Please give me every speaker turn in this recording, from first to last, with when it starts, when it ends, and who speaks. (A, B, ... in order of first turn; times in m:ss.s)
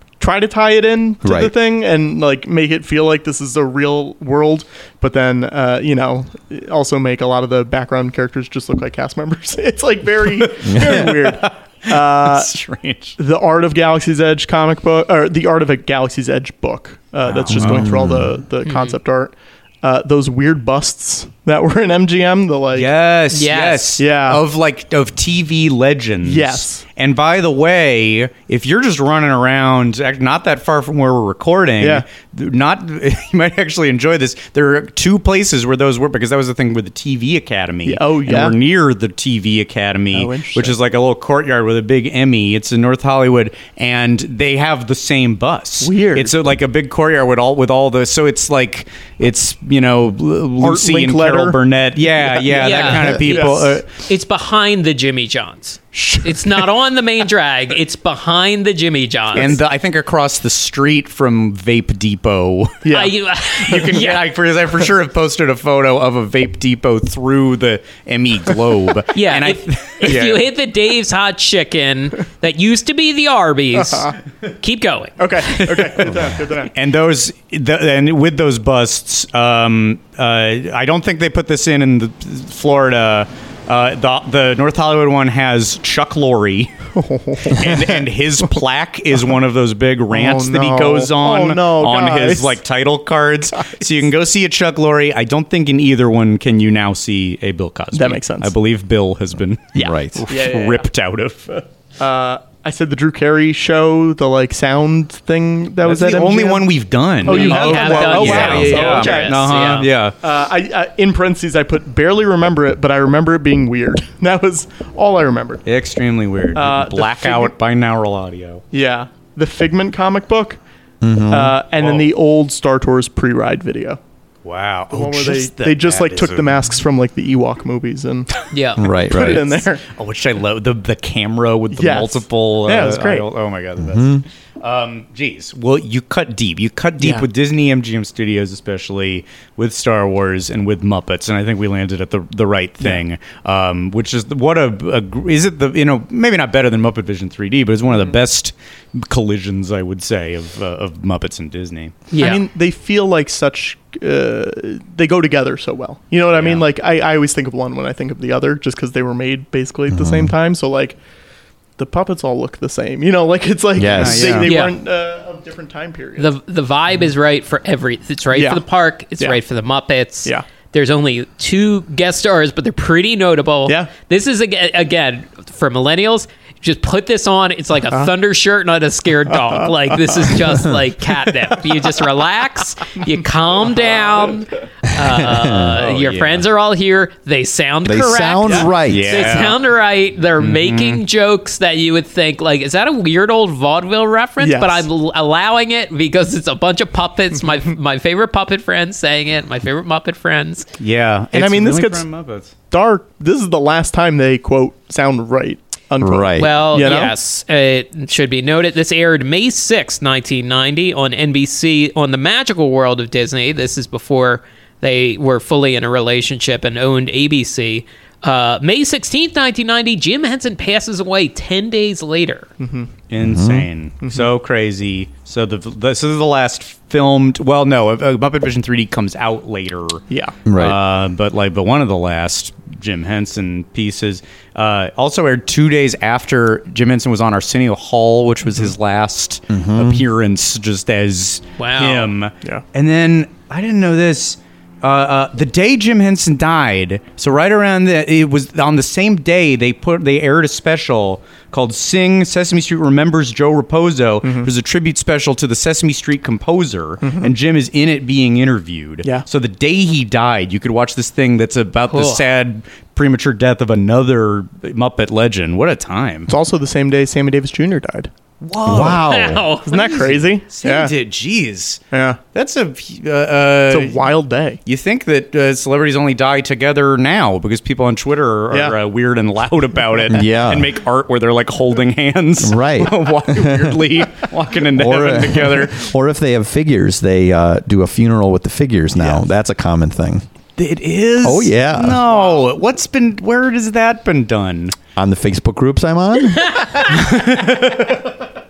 0:00.2-0:12.5 A
0:01.2-0:01.5 B
0:10.3-0:13.2 C
0:10.6-0:11.1 B
0:13.2-0:22.9 A
0:17.2-0:17.9 C
0:17.5-0:18.4 B
0:18.6-0:19.0 D
0:22.7-0:53.9 C
0:23.3-0:23.9 D
0:24.0-0:24.4 A
0:26.2-0:26.8 A
0:31.8-0:32.0 A
0:37.8-0:38.6 A
0:40.1-0:40.8 A
0:45.8-0:46.3 A
0:50.6-0:51.6 A
0:52.1-0:53.8 A
0:52.5-0:53.5 D
0:54.0-0:59.6 D
0:56.0-0:56.2 C
0:59.3-1:02.8 C
1:02.8-1:03.1 A
1:02.9-1:04.2 D
1:03.6-1:10.5 C
1:09.1-1:15.2 D
1:13.7-1:14.1 A
1:15.2-1:16.7 A
1:15.6-1:26.7 C
1:26.9-1:27.9 A
1:27.4-1:41.6 C
1:30.1-1:32.6 A
1:37.9-1:38.5 A
1:39.8-1:40.2 B
1:39.8-1:40.9 A
1:42.0-1:55.6 A
1:45.8-1:50.1 C
1:47.2-1:49.9 D
1:55.6-1:58.6 C
1:56.5-1:57.5 A
1:58.7-2:00.6 A
2:01.0-2:01.6 B
2:01.3-2:04.0 A
2:01.8-2:02.1 C
2:04.4-2:06.7 C
2:04.9-2:08.3 A
2:08.5-2:08.8 D
2:08.8-2:09.5 B
2:09.1-2:09.8 A
2:09.1-2:09.4 C
2:09.9-2:32.1 C
2:11.7-2:13.3 A
2:13.8-2:14.2 B
2:17.0-2:17.2 A
2:32.1-2:32.4 D
2:32.1-2:41.0 A
2:36.3-2:36.6 C
2:39.9-2:40.3 B
2:41.8-2:46.3 A
2:43.8-2:44.4 B
2:43.9-2:44.5 C
2:44.4-2:44.8 D
2:46.2-3:20.7 D
2:48.3-2:48.6 A
2:53.6-2:53.9 A
2:59.4-3:00.3 A
3:03.6-3:04.3 A
3:05.2-3:05.8 B
3:05.8-3:06.4 C
3:07.8-3:09.2 B
3:08.9-3:09.6 C
3:10.4-3:11.0 C
3:14.4-3:14.9 A
3:20.8-3:22.5 C
3:21.3-3:22.0 A
3:22.7-3:27.1 A
3:26.0-3:26.5 B
3:26.4-3:42.5 D
3:42.6-3:42.9 A
3:43.1-4:26.3 C
3:43.2-3:43.7 B
3:44.0-3:44.3 A
3:50.1-3:50.4 A
3:50.5-3:50.8 B
3:59.5-4:00.0 B
4:01.6-4:02.1 D
4:14.2-4:14.5 A
4:17.0-4:17.3 A
4:21.9-4:22.2 D
4:26.3-4:28.1 A
4:28.4-4:29.1 C
4:28.6-4:29.4 B
4:29.0-4:30.1 D
4:29.6-4:30.9 A
4:29.9-4:31.8 C
4:31.9-4:32.2 A
4:32.3-4:34.1 C
4:33.7-4:34.6 A
4:34.6-4:45.9 C
4:38.5-4:38.8 A
4:40.1-4:40.7 B
4:42.4-4:43.9 B
4:44.7-4:50.2 B
4:50.6-4:54.8 C
4:51.2-4:52.0 B
4:55.0-4:56.8 B
4:56.7-4:58.1 C